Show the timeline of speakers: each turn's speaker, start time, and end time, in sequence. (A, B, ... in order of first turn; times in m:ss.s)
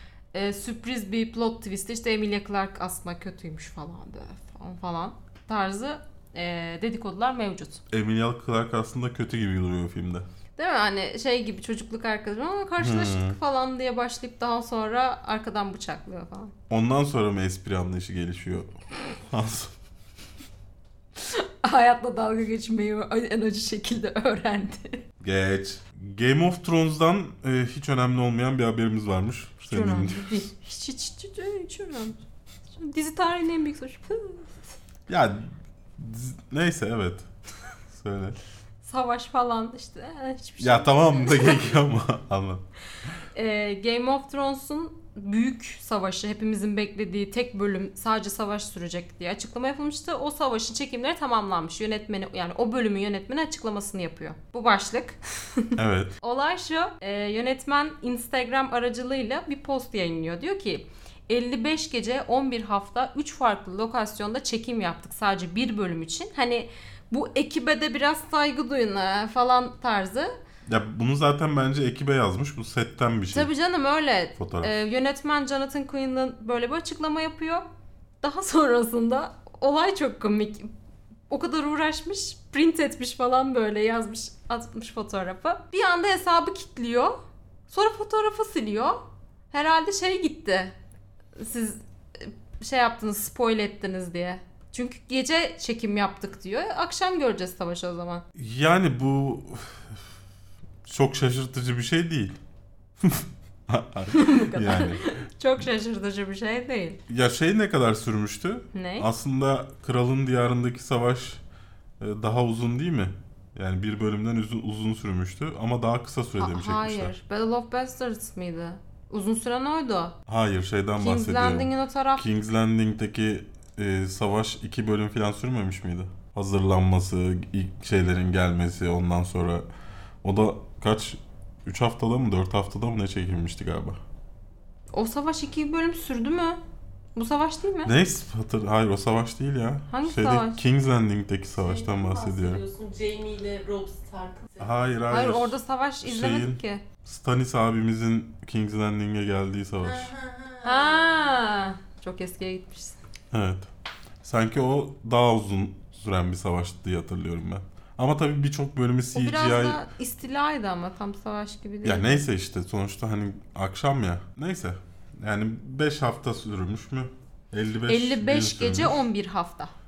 0:00.3-0:07.8 A
0:07.9-0:10.2 B
0:10.6-0:16.5 A
0:12.8-0:13.4 B
0:16.7-0:19.7 B
0:21.2-0:25.0 A
0:25.2-0:30.5 B
0:29.6-0:34.5 A
0:35.1-0:37.3 B
0:37.9-0:38.4 B
0:38.8-0:41.6 A
0:40.6-0:42.6 B
0:43.3-1:10.3 A
0:55.8-0:56.1 B
1:10.6-1:13.5 B
1:13.3-1:17.6 A
1:14.4-1:14.7 B
1:18.2-1:20.7 A
1:21.3-1:27.2 A
1:27.7-1:30.7 A
1:31.4-1:38.2 A
1:38.3-1:40.0 B
1:40.8-1:42.4 B
1:43.0-1:45.1 B
1:44.1-1:47.0 A
1:47.1-1:51.4 B
1:48.7-1:49.1 A
1:52.0-1:57.1 B
1:56.4-2:00.2 A
2:00.3-2:09.6 B
2:01.0-2:02.2 A
2:10.2-2:14.0 B
2:14.9-2:16.6 A
2:17.1-2:17.9 A
2:17.8-2:22.6 B
2:19.9-2:20.6 A
2:21.6-2:24.7 C
2:24.6-2:30.1 B
2:25.1-2:26.8 A
2:29.8-2:31.1 C
2:30.6-2:33.0 A
2:33.3-2:33.7 B
2:34.2-2:39.8 B
2:39.1-2:42.2 A
2:41.8-2:49.0 B
2:47.9-2:49.7 A